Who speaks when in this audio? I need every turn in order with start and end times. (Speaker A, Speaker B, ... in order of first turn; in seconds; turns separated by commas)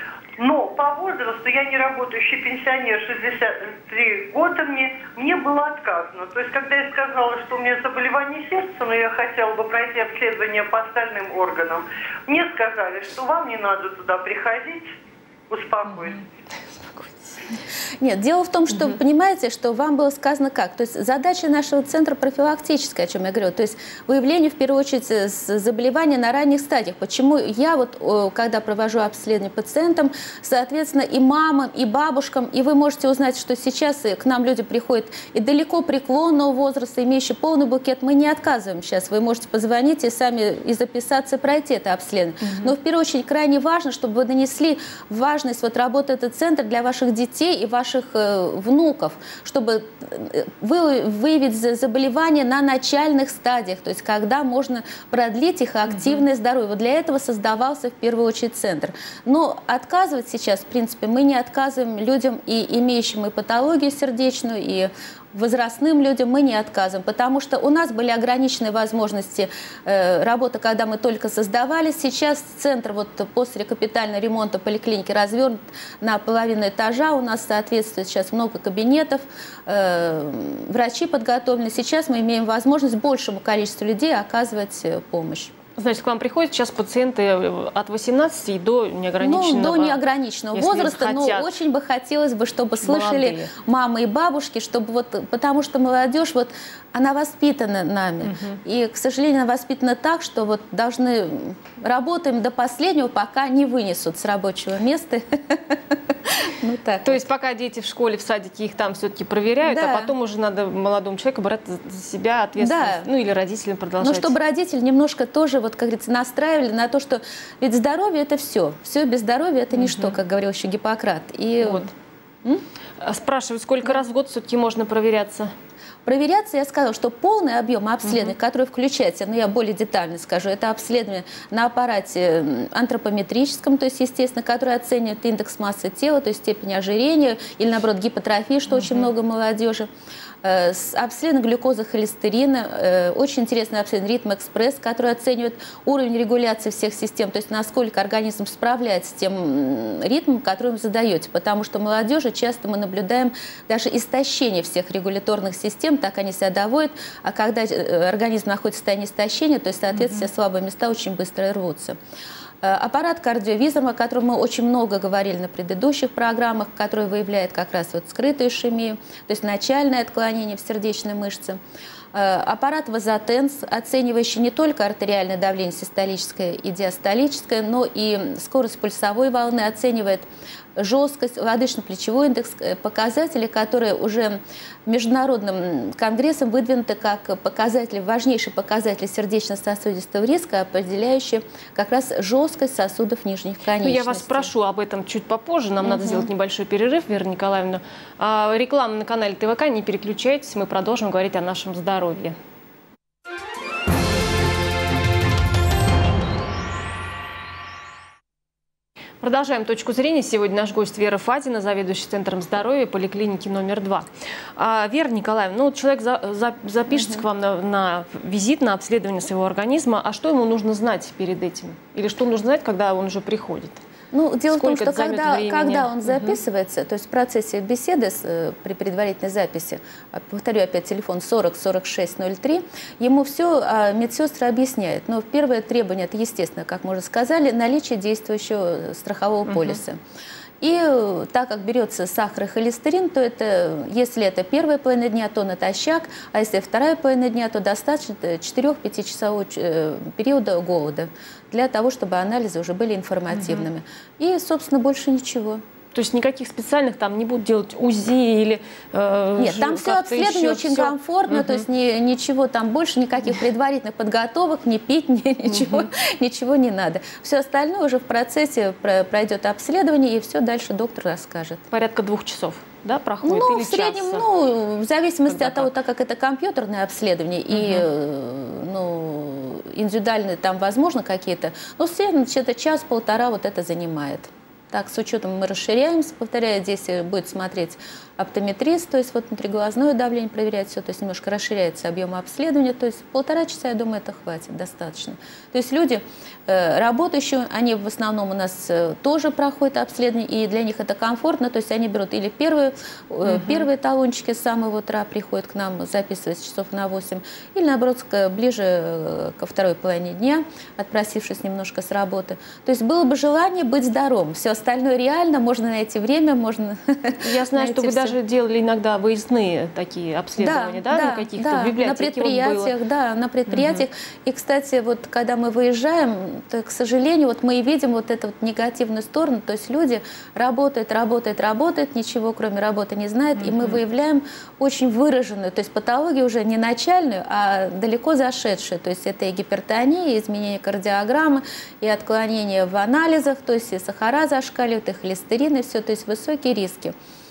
Speaker A: 0.4-14.9, Speaker A: 15.5-16.2, Speaker B: 16.9-17.3, Speaker C: 18.0-85.5, Speaker B: 42.4-42.7, Speaker B: 55.9-56.2, Speaker B: 85.8-90.0, Speaker C: 89.2-107.2, Speaker B: 90.5-91.6, Speaker B: 92.8-93.5, Speaker B: 98.2-98.6, Speaker B: 107.0-114.3, Speaker C: 109.6-110.1, Speaker C: 112.6-113.1, Speaker C: 114.0-121.9, Speaker B: 119.7-120.2, Speaker B: 121.6-121.9, Speaker B: 123.0-125.5, Speaker C: 126.1-139.9, Speaker B: 128.1-128.3, Speaker B: 138.7-139.1, Speaker C: 140.4-162.0, Speaker B: 160.0-160.2, Speaker C: 162.6-171.6, Speaker C: 172.1-194.5, Speaker B: 193.8-202.4, Speaker C: 195.8-196.3, Speaker B: 209.2-223.8, Speaker C: 216.9-217.2, Speaker C: 224.1-240.0, Speaker B: 224.5-226.4, Speaker B: 239.5-239.8, Speaker C: 240.6-255.6, Speaker B: 253.3-253.7, Speaker B: 255.9-261.6, Speaker C: 259.4-271.6, Speaker B: 265.5-265.9, Speaker B: 271.7-274.2, Speaker C: 273.2-318.1, Speaker B: 275.3-275.7, Speaker B: 277.5-277.9, Speaker B: 303.3-303.6, Speaker B: 317.2-322.7, Speaker C: 320.4-346.9, Speaker B: 323.5-323.8, Speaker B: 333.4-333.8